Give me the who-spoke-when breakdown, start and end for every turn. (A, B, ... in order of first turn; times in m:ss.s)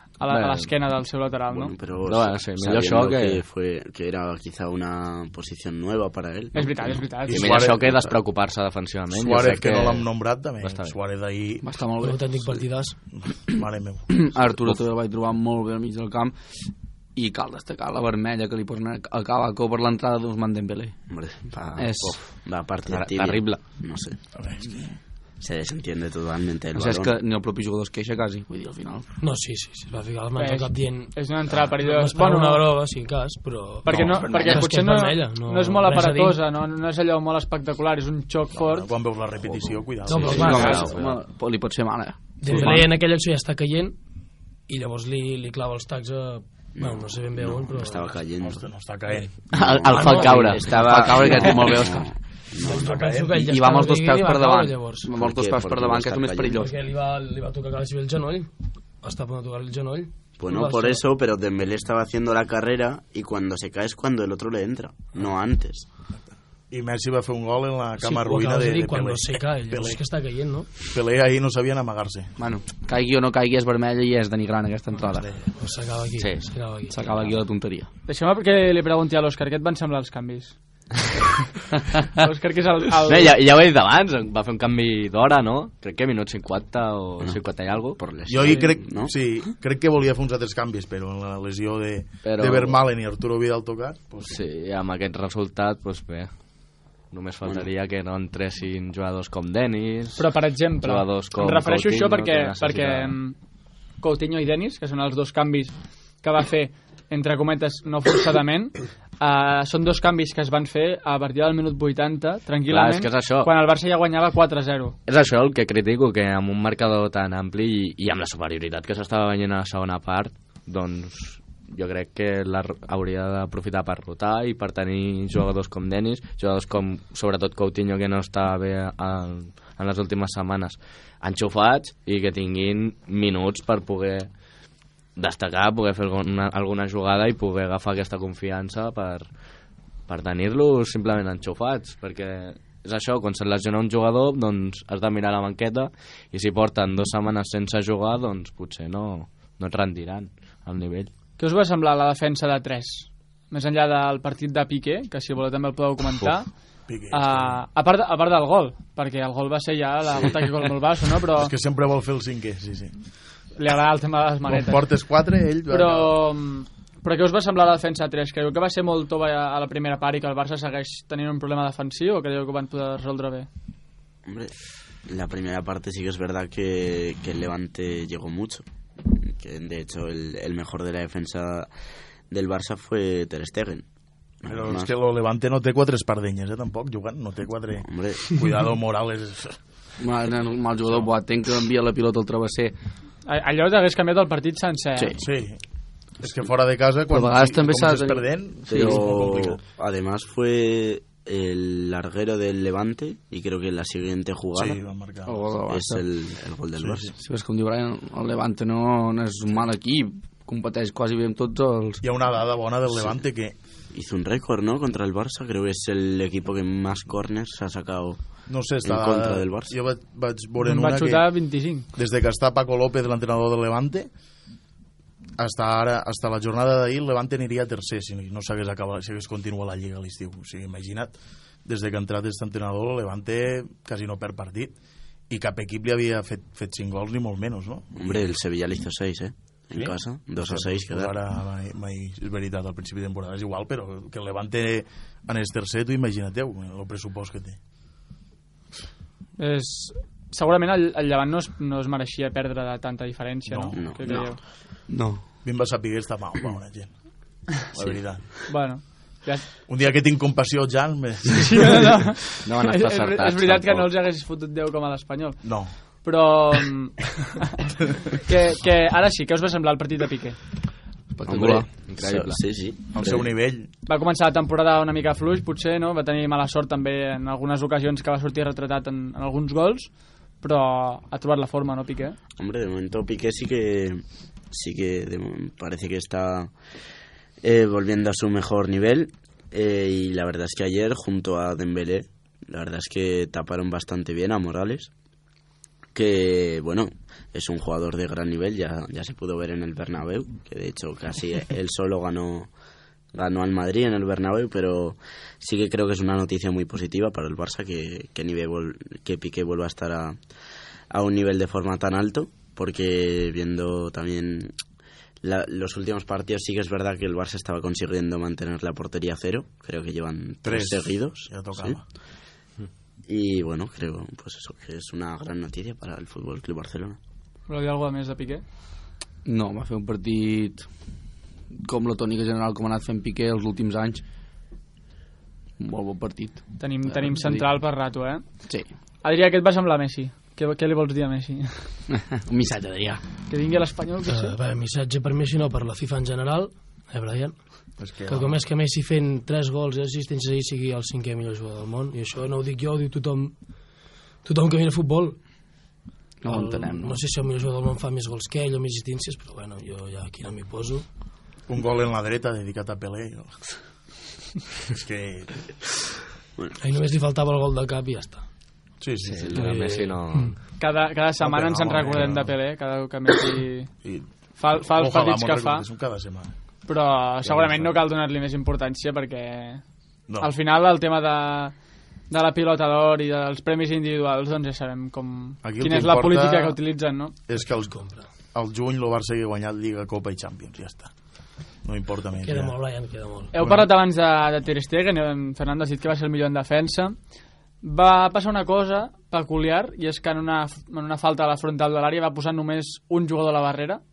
0:00.2-0:01.7 A
0:00.3-0:00.7 B
0:01.5-0:08.1 C
0:02.0-0:03.4 B
0:06.5-0:07.5 A
0:07.3-0:08.1 D
0:07.3-0:10.1 B
0:09.1-0:11.6 D
0:10.6-0:11.0 B
0:11.6-0:12.4 E
0:12.0-0:13.0 F
0:13.2-0:14.5 D
0:14.1-0:16.4 E
0:17.2-0:21.0 E
0:21.1-0:24.2 C
0:21.8-0:22.2 E
0:22.9-0:23.7 B
0:24.4-0:25.0 D
0:25.4-0:27.1 C
0:26.7-0:29.1 E
0:29.2-0:36.4 F
0:30.4-0:32.7 A
0:33.8-0:38.9 A
0:33.9-0:34.2 D
0:34.3-0:34.6 E
0:38.5-0:40.5 D
0:40.0-0:40.9 F
0:40.2-0:42.9 E
0:40.3-0:41.2 B
0:42.4-0:44.0 F
0:42.5-0:42.8 D
0:44.7-0:48.2 F
0:46.8-0:48.6 C
0:48.4-0:49.3 D
0:49.5-0:50.7 B
0:49.5-0:53.0 C
0:49.9-0:50.5 F
0:50.5-0:52.1 E
0:52.6-0:55.1 F
0:52.6-0:53.6 D
0:53.5-0:56.7 E
0:55.2-0:56.7 C
0:56.6-0:58.5 F
0:59.0-1:01.0 F
1:00.4-1:05.9 C
1:06.7-1:10.0 D
1:08.0-1:10.7 F
1:10.9-1:12.3 D
1:12.4-1:15.3 E
1:15.5-1:17.2 F
1:16.9-1:17.9 E
1:18.1-1:20.6 A
1:22.2-1:23.3 A
1:23.1-1:28.0 B
1:27.2-1:29.2 C
1:28.3-1:34.4 D
1:28.4-1:28.7 A
1:32.2-1:32.8 B
1:34.2-1:36.3 B
1:37.1-1:43.2 B
1:40.2-1:43.4 A
1:44.0-1:55.0 A
1:52.7-1:53.5 B
1:55.1-2:14.3 B
2:15.2-2:19.3 B
2:20.1-2:31.1 B
2:31.4-2:36.6 A
2:36.9-2:37.6 D
2:37.1-2:41.5 A
2:41.4-2:43.0 D
2:43.6-2:44.9 A
2:44.5-2:46.2 D
2:45.7-2:53.5 A
2:54.3-3:01.7 C
3:02.3-3:03.9 C
3:04.4-3:04.9 C
3:04.5-3:09.6 D
3:07.8-3:08.3 C
3:10.0-3:12.7 E
3:13.3-3:15.2 A
3:15.2-3:15.6 D
3:16.2-3:19.6 D
3:17.1-3:19.1 E
3:18.7-3:24.8 C
3:24.5-3:25.4 D
3:25.2-3:26.0 E
3:25.7-3:27.1 C
3:26.8-3:27.1 D
3:27.2-3:32.0 E
3:32.0-3:33.6 D
3:33.9-3:38.3 C
3:38.5-3:41.3 D
3:38.8-3:39.8 C
3:40.6-3:41.9 A
3:41.9-3:44.1 D
3:45.4-3:54.7 D
3:55.3-3:58.4 D
3:58.0-4:01.2 C
3:59.7-4:07.6 D
4:09.4-4:14.4 A
4:13.5-4:14.3 D
4:13.7-4:14.4 C
4:14.9-4:15.2 E
4:15.4-4:16.9 D
4:17.5-4:18.3 D
4:17.7-4:18.0 C
4:18.5-4:19.5 A
4:19.7-4:22.2 D
4:21.4-4:25.4 A
4:22.4-4:23.9 B
4:25.4-4:25.7 D
4:26.0-4:27.6 A
4:28.1-4:30.4 A
4:31.2-4:31.7 E
4:31.3-4:33.3 C
4:31.6-4:32.4 B
4:32.9-4:33.7 D
4:33.9-4:42.2 A
4:42.4-4:46.5 C
4:47.4-4:54.9 C
4:55.9-5:02.5 C
5:03.1-5:10.2 C
5:10.9-5:14.5 C
5:15.2-5:21.8 C
5:20.4-5:21.8 D
5:23.1-5:27.0 C
5:27.5-5:28.4 A
5:29.2-5:30.7 E
5:31.6-5:34.0 E
5:35.6-5:37.5 E
5:36.6-5:38.4 A
5:39.0-5:41.7 A
5:41.9-5:43.0 E
5:43.3-5:44.4 A
5:44.1-5:53.4 F
5:47.8-5:48.3 D
5:54.2-5:55.2 F
5:56.2-5:57.0 E
5:56.3-6:00.9 F
6:01.5-6:03.4 D
6:04.7-6:05.4 D
6:06.6-6:08.2 F
6:08.8-6:09.5 D
6:09.0-6:10.4 B
6:09.3-6:10.4 F
6:10.6-6:13.7 A
6:11.2-6:12.4 D
6:13.8-6:16.3 D
6:14.4-6:15.7 A
6:16.7-6:19.6 A
6:20.2-6:21.6 A
6:22.1-6:27.2 A
6:25.4-6:26.6 D
6:27.3-6:27.8 D
6:27.5-6:28.1 F
6:28.3-6:30.9 D
6:31.6-6:32.6 D
6:32.2-6:33.3 F
6:33.3-6:37.0 A
6:33.4-6:33.7 D
6:37.6-6:43.8 A